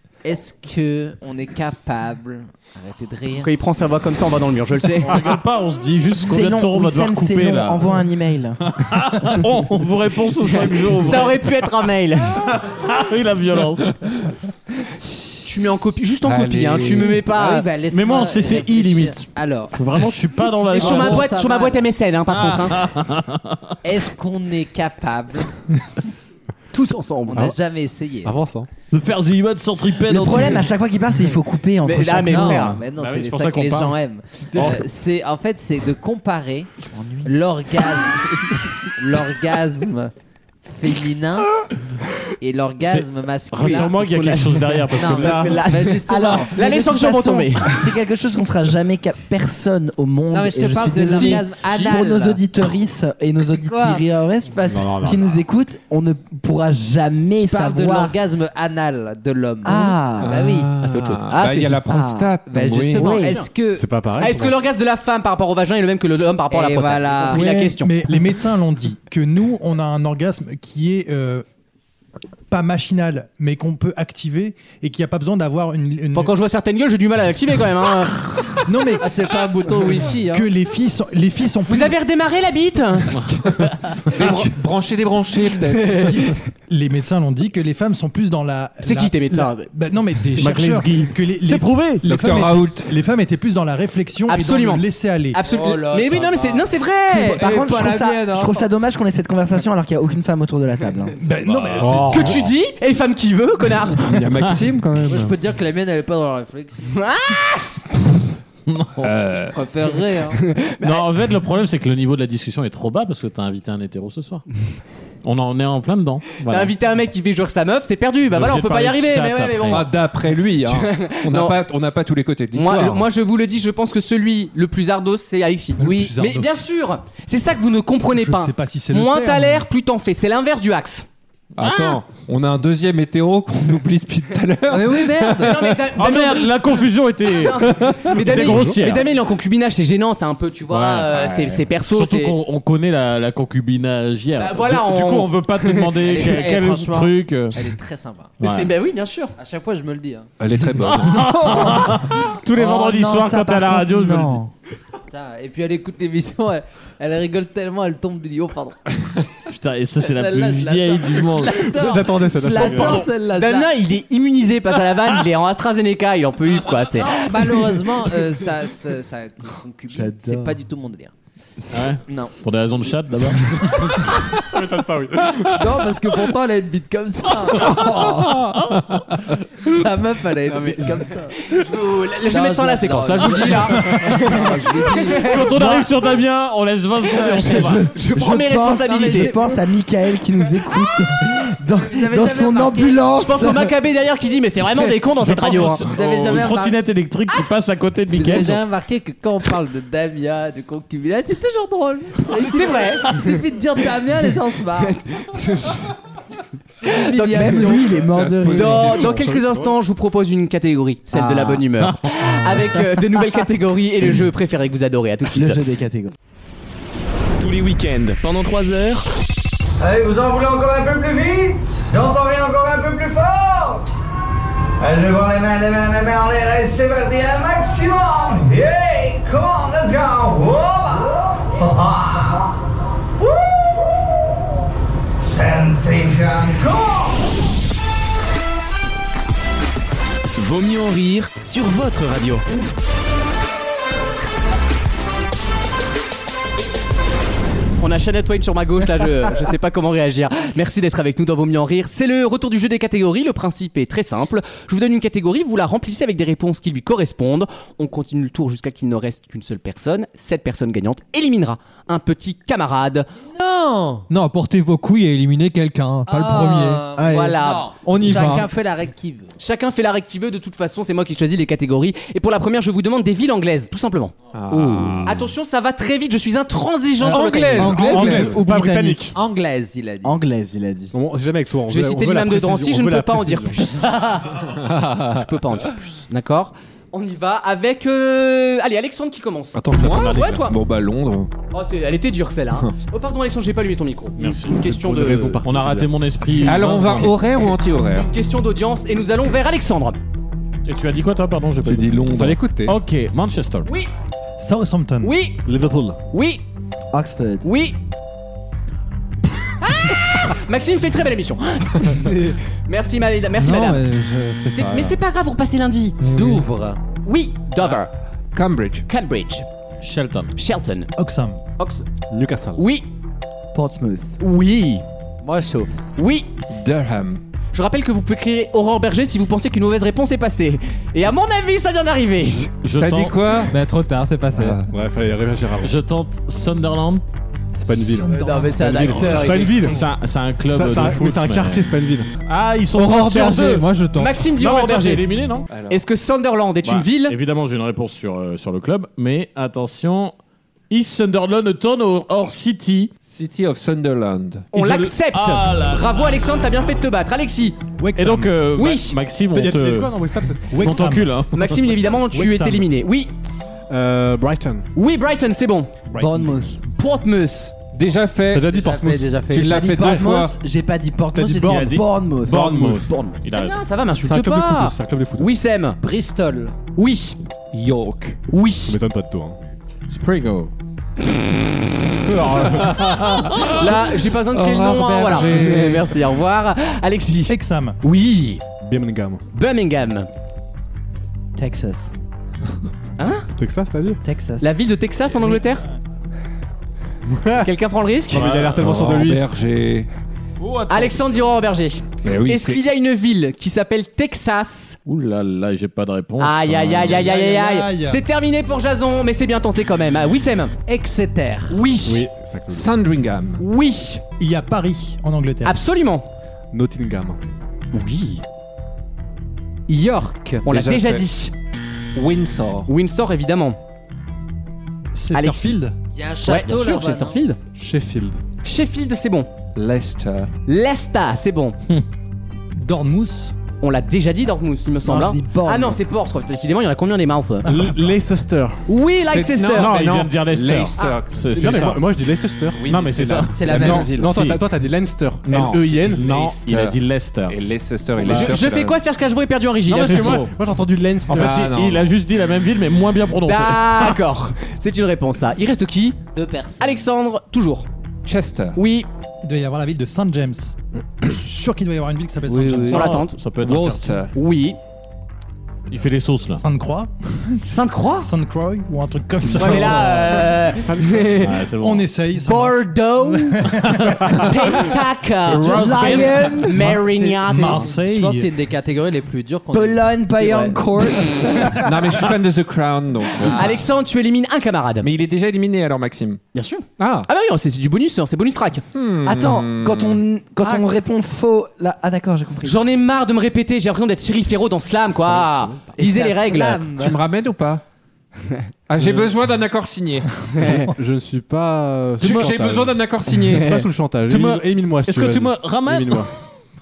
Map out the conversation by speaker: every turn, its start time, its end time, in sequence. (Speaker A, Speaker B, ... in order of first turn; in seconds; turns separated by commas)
Speaker A: 0.2-3.5, Speaker B: 3.4-5.3, Speaker C: 5.0-8.1, Speaker D: 6.2-8.6, Speaker C: 8.6-11.6, Speaker B: 10.5-12.6, Speaker C: 12.5-13.9, Speaker B: 15.4-17.7, Speaker E: 16.2-17.2, Speaker A: 17.2-19.8, Speaker C: 17.9-21.3, Speaker B: 20.7-22.8, Speaker A: 20.7-21.9, Speaker C: 22.3-23.8, Speaker A: 23.8-25.5, Speaker B: 26.7-27.5, Speaker A: 27.3-28.4, Speaker F: 28.2-28.7, Speaker C: 28.9-30.7, Speaker D: 30.1-32.8, Speaker B: 31.8-32.8, Speaker A: 32.3-36.7, Speaker C: 33.0-34.0, Speaker D: 36.9-37.3, Speaker A: 37.2-38.5, Speaker A: 39.0-40.1, Speaker A: 40.6-41.5, Speaker A: 42.4-44.4, Speaker C: 42.8-45.6, Speaker B: 43.6-47.7, Speaker A: 44.9-46.6, Speaker D: 46.1-58.1, Speaker A: 50.3-52.4, Speaker A: 53.7-55.0, Speaker A: 57.4-60.7, Speaker D: 59.6-60.4, Speaker E: 60.2-63.2, Speaker B: 60.8-61.8, Speaker D: 61.8-62.4, Speaker A: 62.5-64.0, Speaker D: 62.9-63.4, Speaker F: 63.7-64.6, Speaker B: 64.2-68.0, Speaker A: 66.5-67.4, Speaker G: 67.3-71.5, Speaker G: 72.5-76.3, Speaker B: 76.1-78.5, Speaker G: 78.7-79.1, Speaker A: 79.0-80.5, Speaker G: 80.2-82.0, Speaker B: 81.7-84.3, Speaker E: 84.1-86.2, Speaker B: 85.7-86.4, Speaker G: 85.9-95.4, Speaker B: 88.8-89.7, Speaker C: 90.4-92.0, Speaker E: 92.0-92.9, Speaker B: 94.3-97.4, Speaker A: 95.4-98.7, Speaker D: 97.1-101.2, Speaker G: 101.2-102.5, Speaker E: 101.6-102.0, Speaker F: 101.8-102.4, Speaker B: 102.1-104.2, Speaker E: 104.0-105.3, Speaker C: 104.4-104.7, Speaker A: 105.0-106.9, Speaker B: 106.9-107.8, Speaker C: 108.7-109.2, Speaker E: 109.0-109.6, Speaker A: 109.3-110.4, Speaker B: 110.4-111.0, Speaker C: 110.8-114.4, Speaker C: 115.2-116.7, Speaker B: 116.4-119.9, Speaker C: 118.3-119.9, Speaker E: 119.7-123.1, Speaker B: 120.7-121.6, Speaker B: 122.5-131.1, Speaker G: 125.8-126.6, Speaker G: 128.1-129.7, Speaker E: 131.6-135.8, Speaker C: 131.6-132.0, Speaker A: 134.7-135.7, Speaker B: 135.4-142.4, Speaker C: 136.0-139.1, Speaker F: 138.4-138.7, Speaker E: 140.7-141.7, Speaker C: 141.9-147.6, Speaker B: 144.4-146.3, Speaker A: 146.0-148.4, Speaker C: 148.4-148.7, Speaker B: 148.4-149.3, Speaker A: 149.4-150.3, Speaker E: 150.4-151.3, Speaker C: 150.8-154.4, Speaker D: 151.5-151.9, Speaker D: 152.6-154.5, Speaker A: 155.1-158.8, Speaker C: 159.5-161.7, Speaker A: 160.1-163.7, Speaker F: 161.6-163.1, Speaker C: 162.6-163.0, Speaker B: 163.2-167.7, Speaker A: 167.0-171.1, Speaker D: 169.9-170.6, Speaker C: 171.7-174.0, Speaker A: 172.1-172.4, Speaker F: 174.5-175.6, Speaker A: 175.5-178.3, Speaker C: 177.5-179.2, Speaker A: 179.6-181.4, Speaker B: 180.5-185.9, Speaker A: 182.3-185.6, Speaker C: 185.2-187.9, Speaker B: 187.1-189.3, Speaker D: 188.1-193.7, Speaker A: 188.8-189.6, Speaker A: 191.7-193.1, Speaker B: 193.2-195.9, Speaker C: 195.2-198.6, Speaker A: 195.9-196.8, Speaker A: 198.1-205.0, Speaker B: 202.3-203.3, Speaker B: 204.8-205.9, Speaker A: 206.8-208.6, Speaker B: 206.8-207.8, Speaker D: 207.2-209.1, Speaker E: 208.1-209.4, Speaker B: 208.5-215.6, Speaker F: 208.8-209.7, Speaker D: 211.1-211.6, Speaker C: 211.8-212.2, Speaker D: 215.3-216.1, Speaker H: 217.4-219.0, Speaker I: 219.8-223.8, Speaker I: 224.8-232.3, Speaker I: 235.2-236.9, Speaker H: 240.4-242.4, Speaker B: 247.8-263.1, Speaker A: 263.3-264.1, Speaker J: 264.1-268.5, Speaker A: 266.1-269.3, Speaker B: 267.0-267.7, Speaker B: 269.4-274.1, Speaker E: 274.3-275.3, Speaker D: 274.5-274.8, Speaker B: 275.1-277.8, Speaker J: 277.0-279.1, Speaker E: 277.1-278.4, Speaker F: 277.6-279.2, Speaker A: 279.1-280.2, Speaker D: 280.0-280.9, Speaker F: 280.9-283.9, Speaker B: 281.7-284.0, Speaker E: 284.6-285.2, Speaker B: 285.1-290.6, Speaker F: 289.5-290.5, Speaker E: 289.7-291.3, Speaker B: 291.5-295.4, Speaker C: 294.2-294.6, Speaker F: 294.5-295.9, Speaker C: 295.4-297.3, Speaker E: 296.4-298.1, Speaker B: 297.9-300.0, Speaker C: 300.6-303.7, Speaker E: 301.6-302.6, Speaker F: 302.1-302.7, Speaker B: 303.7-303.9, Speaker G: 304.4-305.1, Speaker B: 305.0-305.4, Speaker F: 305.5-306.0, Speaker B: 306.1-306.4, Speaker D: 306.9-307.5, Speaker B: 307.4-307.8, Speaker B: 309.6-313.9, Speaker J: 313.4-314.9, Speaker B: 314.5-316.0, Speaker A: 316.0-316.8, Speaker B: 317.0-317.9, Speaker E: 318.3-318.9, Speaker B: 318.9-319.5, Speaker C: 319.8-320.3, Speaker B: 320.4-320.9, Speaker G: 321.0-321.4, Speaker B: 321.6-321.8, Speaker F: 322.1-322.6, Speaker B: 322.6-322.9, Speaker D: 323.5-324.2, Speaker B: 324.2-324.9, Speaker A: 325.2-325.8, Speaker B: 326.0-326.3, Speaker E: 326.5-327.2, Speaker B: 327.5-332.5, Speaker C: 332.6-333.3, Speaker E: 332.7-333.6, Speaker J: 333.5-334.6, Speaker E: 334.4-334.7, Speaker F: 334.7-335.8, Speaker C: 335.6-337.0, Speaker F: 337.6-339.9, Speaker A: 338.0-339.6, Speaker B: 338.1-339.5, Speaker G: 338.2-338.7, Speaker C: 338.8-341.7, Speaker F: 340.5-342.1, Speaker C: 342.3-343.7, Speaker J: 342.8-344.2, Speaker B: 343.9-345.1, Speaker C: 344.4-345.5, Speaker E: 345.5-345.8, Speaker B: 345.7-347.2, Speaker C: 346.6-350.1, Speaker C: 350.7-352.9, Speaker E: 353.1-354.5, Speaker C: 354.5-356.0, Speaker B: 354.5-357.6, Speaker G: 357.8-358.4, Speaker C: 358.0-359.9, Speaker B: 358.6-359.0, Speaker F: 359.3-360.9, Speaker G: 360.5-361.2, Speaker C: 360.5-361.6, Speaker B: 361.3-363.1, Speaker G: 362.1-362.7, Speaker F: 363.7-364.7, Speaker B: 364.8-365.7, Speaker F: 365.9-366.4, Speaker D: 366.0-366.6, Speaker B: 366.8-367.6, Speaker E: 367.7-368.6, Speaker F: 368.3-369.2, Speaker A: 368.5-369.9, Speaker E: 369.3-370.4, Speaker D: 369.4-372.6, Speaker F: 371.1-372.9, Speaker C: 371.5-373.6, Speaker B: 372.9-375.8, Speaker F: 374.0-375.3, Speaker A: 375.8-376.6, Speaker B: 376.7-377.2, Speaker E: 377.5-378.1, Speaker F: 377.6-379.4, Speaker B: 378.3-378.8, Speaker C: 379.9-380.5, Speaker F: 382.1-382.6, Speaker C: 382.3-383.5, Speaker B: 383.4-388.4, Speaker E: 384.3-385.9, Speaker G: 387.3-387.8, Speaker F: 388.6-389.2, Speaker B: 389.3-390.1, Speaker D: 391.4-391.9, Speaker B: 393.0-393.2, Speaker F: 393.3-394.0, Speaker D: 394.0-394.5, Speaker B: 394.4-395.6, Speaker G: 395.2-395.6, Speaker F: 397.1-397.5, Speaker B: 397.4-398.2, Speaker F: 398.1-399.2, Speaker C: 398.1-398.8, Speaker E: 398.6-399.9, Speaker C: 400.4-401.1, Speaker B: 400.7-404.8, Speaker E: 402.0-402.6, Speaker C: 404.9-407.1, Speaker B: 406.2-410.6, Speaker G: 406.9-408.0, Speaker A: 410.7-411.7, Speaker B: 411.5-412.1, Speaker F: 411.8-412.7, Speaker E: 412.5-413.4, Speaker B: 413.4-414.0, Speaker G: 414.2-415.6, Speaker B: 415.4-416.1, Speaker F: 416.5-417.2, Speaker B: 417.7-418.2, Speaker A: 419.7-420.5, Speaker B: 420.4-421.3, Speaker E: 420.5-421.1, Speaker E: 421.9-422.7, Speaker B: 422.7-423.6, Speaker G: 424.9-425.7, Speaker B: 425.1-425.5, Speaker A: 425.9-427.2, Speaker B: 426.3-427.4, Speaker F: 427.6-428.2, Speaker B: 428.4-429.3, Speaker E: 429.5-430.3, Speaker B: 430.5-431.6, Speaker G: 432.6-433.3, Speaker B: 433.6-437.5, Speaker D: 434.8-435.8, Speaker F: 437.4-438.6, Speaker G: 437.5-437.8, Speaker B: 438.7-439.8, Speaker E: 439.1-441.8, Speaker C: 439.5-441.9, Speaker F: 441.3-442.6, Speaker E: 442.5-444.2, Speaker C: 442.6-444.4, Speaker A: 443.3-443.9, Speaker F: 443.5-446.1, Speaker C: 445.3-447.4, Speaker E: 445.3-448.8, Speaker B: 448.0-450.3, Speaker F: 449.7-451.4, Speaker C: 449.7-450.3, Speaker C: 451.1-454.0, Speaker E: 451.1-451.9, Speaker B: 453.2-456.0, Speaker A: 456.1-456.9, Speaker B: 456.6-457.7, Speaker E: 458.1-458.6, Speaker B: 458.6-458.9, Speaker G: 459.2-462.9, Speaker A: 462.3-462.9, Speaker B: 462.7-463.2, Speaker C: 462.7-464.0, Speaker E: 463.4-464.1, Speaker B: 464.1-464.6, Speaker C: 465.7-466.4, Speaker G: 466.4-467.5, Speaker B: 467.4-468.1, Speaker G: 468.0-470.4, Speaker B: 469.3-471.4, Speaker F: 469.4-471.3, Speaker C: 471.2-471.9, Speaker G: 471.6-474.5, Speaker B: 472.2-473.5, Speaker C: 473.5-474.5, Speaker B: 474.1-477.7, Speaker C: 475.2-476.4, Speaker A: 475.2-476.1, Speaker D: 475.4-476.8, Speaker G: 476.6-478.3, Speaker A: 476.9-481.0, Speaker D: 479.5-481.7, Speaker G: 481.5-481.8, Speaker E: 481.6-483.7, Speaker A: 483.2-483.5, Speaker B: 483.2-484.9, Speaker E: 484.8-486.2, Speaker B: 486.3-488.6, Speaker E: 486.8-487.1, Speaker E: 488.7-490.0, Speaker D: 489.0-492.6, Speaker B: 492.4-496.7, Speaker A: 495.8-497.0, Speaker E: 496.8-497.6, Speaker E: 498.7-500.1, Speaker F: 498.8-499.1, Speaker B: 500.4-500.7, Speaker F: 500.5-506.1, Speaker E: 502.0-503.7, Speaker C: 502.0-502.4, Speaker C: 504.1-506.1